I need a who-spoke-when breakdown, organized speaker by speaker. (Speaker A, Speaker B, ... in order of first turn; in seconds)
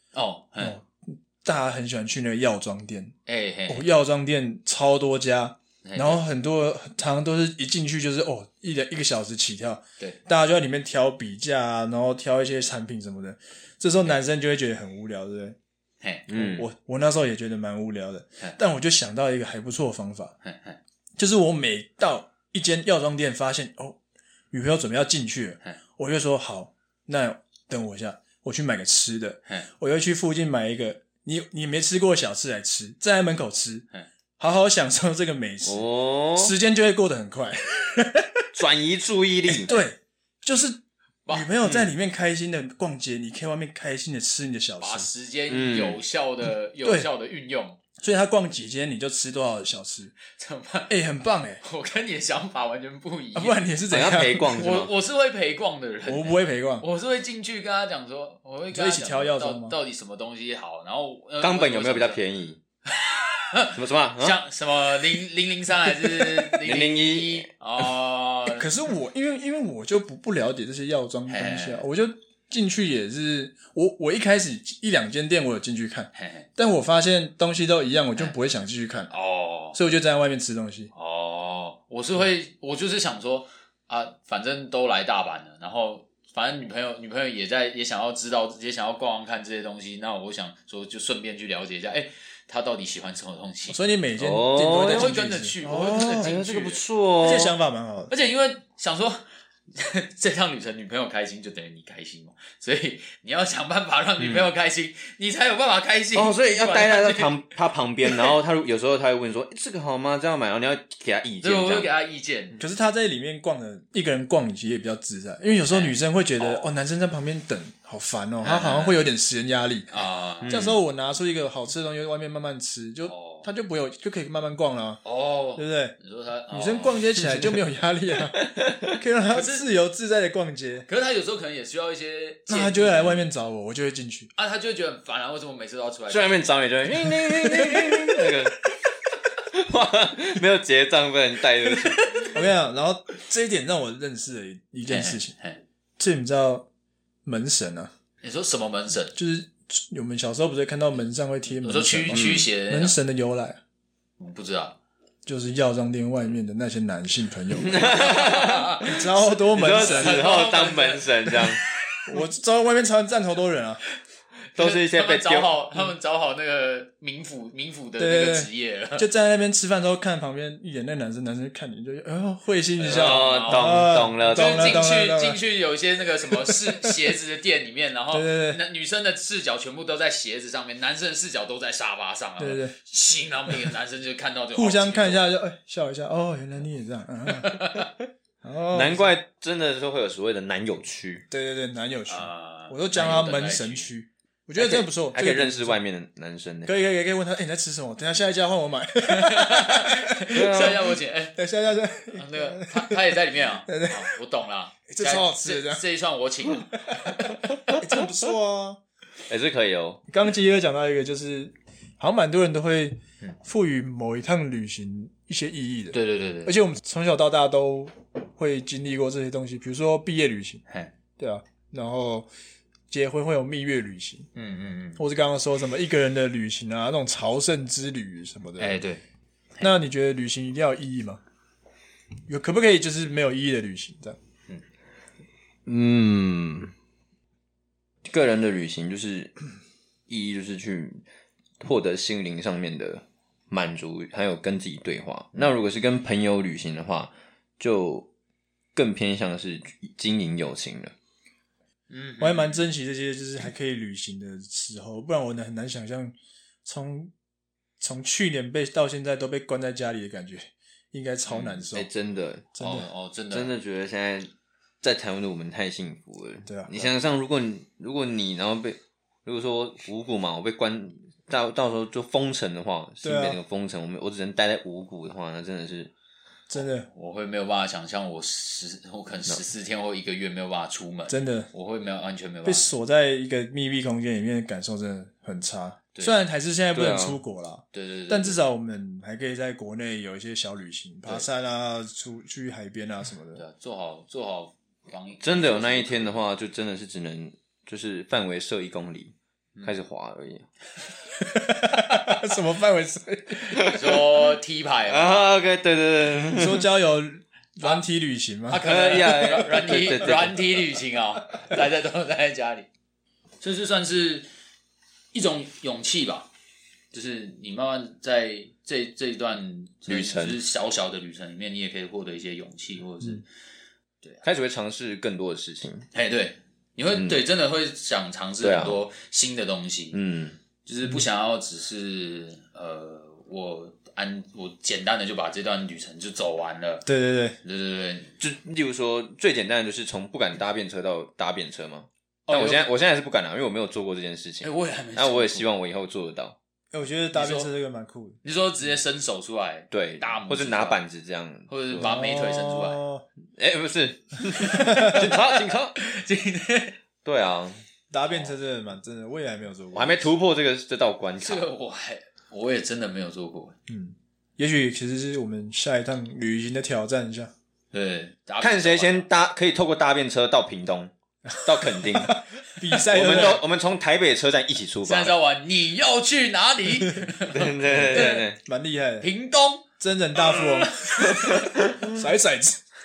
Speaker A: 0.1-0.8, 3.3-3.9, 5.8-6.2, 16.0-16.3, 20.4-20.8, 41.3-41.5, 44.8-47.8, 50.3-50.9, 51.6-53.7, 54.5-62.2, 62.9-68.7, 71.3-71.9, 76.2-76.5, 79.1-79.8, 80.9-93.8, 94.7-97.5, 98.1-107.4, 108.0-108.3, 111.4-112.6, 115.7-116.7, 118.4-119.1, 119.9-120.7, 123.0-123.5, 125.0-127.0, 129.3-129.7, 130.9-133.3, 134.3-136.4, 142.0-142.4, 144.9-145.6, 148.2-149.2, 151.6-153.0, 154.2-154.8, 157.8-161.6, 164.6-169.1, 172.8-173.7, 174.3-185.2, 187.4-187.9, 192.1-193.9, 199.1-201.4, 202.1-207.3, 215.9-216.6, 224.3-225.0, 228.6-229.0, 251.9-252.7, 261.3-261.7, 262.6-263.6, 276.5-282.7, 287.7-288.4, 293.4-296.2, 303.6-305.3, 308.5-312.7, 313.4-314.3, 315.1-316.3, 316.9-323.2, 325.9-330.0, 330.6-336.9, 337.4-338.1, 342.3-342.7, 344.4-345.5, 347.1-347.5, 348.2-350.8, 351.5-352.8, 354.4-356.8, 358.1-358.4, 361.2-363.6, 367.7-369.1, 374.8-378.3, 379.0-379.6, 380.2-381.5
Speaker B: 0.6-3.1, 3.7-15.6, 16.3-20.3, 21.2-24.0, 24.5-33.9, 34.4-38.5, 39.5-45.1, 46.8-47.1, 48.0-50.1, 50.9-51.6, 53.4-54.6, 56.1-56.9, 58.7-59.8, 68.5-79.1, 79.7-80.9, 93.7-96.3, 97.2-98.1, 112.6-125.0, 125.5-126.0, 126.5-130.9, 132.5-134.3, 137.2-138.0, 142.3-145.3, 146.0-146.7, 147.3-147.9, 149.2-153.6, 155.3-157.9, 158.8-160.3, 162.1-163.8, 168.0-175.4, 176.4-176.9, 178.1-178.6, 182.4-182.8, 184.6-187.6, 188.4-189.1, 191.3-195.8, 196.7-200.8, 201.3-203.0, 203.7-204.2, 204.9-205.8, 206.8-208.8, 210.1-220.6, 221.2-222.3, 222.9-224.3, 225.0-228.8, 229.6-231.2, 232.3-234.2, 252.2-257.1, 257.8-261.9, 262.6-262.9, 266.5-266.9, 273.0-273.4, 276.5-276.9, 281.1-281.5, 282.4-293.4, 301.1-303.7, 306.3-308.6, 336.9-337.4, 346.7-348.2, 351.8-353.0, 354.6-355.0, 357.9-360.1, 363.7-367.3, 371.9-373.4, 376.7-377.1, 377.7-379.1, 379.8-381.2, 381.8-382.6
Speaker C: 16.3-16.7, 35.6-36.5, 38.5-39.8, 41.6-41.9, 45.5-46.0, 53.9-54.9, 61.4-62.6, 63.8-64.4, 66.6-67.5, 94.2-95.1, 96.2-97.5, 104.2-104.5, 106.2-111.9, 120.4-120.8, 127.2-127.7, 128.4-128.8, 136.1-138.6, 139.5-142.1, 152.1-152.5, 157.6-158.9, 159.5-161.6, 164.6-165.6, 172.9-174.8, 188.7-191.2, 194.6-196.7, 200.3-200.9, 209.3-210.0, 235.7-236.7, 238.1-239.4, 240.1-241.0, 241.6-248.1, 248.8-250.9, 261.7-262.7, 263.3-264.3, 264.8-275.9, 286.7-287.2, 295.2-299.1, 299.6-300.5, 303.5-304.4, 304.9-306.7, 308.6-310.5, 319.9-320.4, 324.2-325.9, 328.4-328.8, 329.9-330.4, 338.2-346.4, 349.7-351.9, 353.4-355.8, 357.1-357.6, 359.7-361.5, 368.4-372.2, 372.9-375.1, 377.3-378.4, 381.4-381.8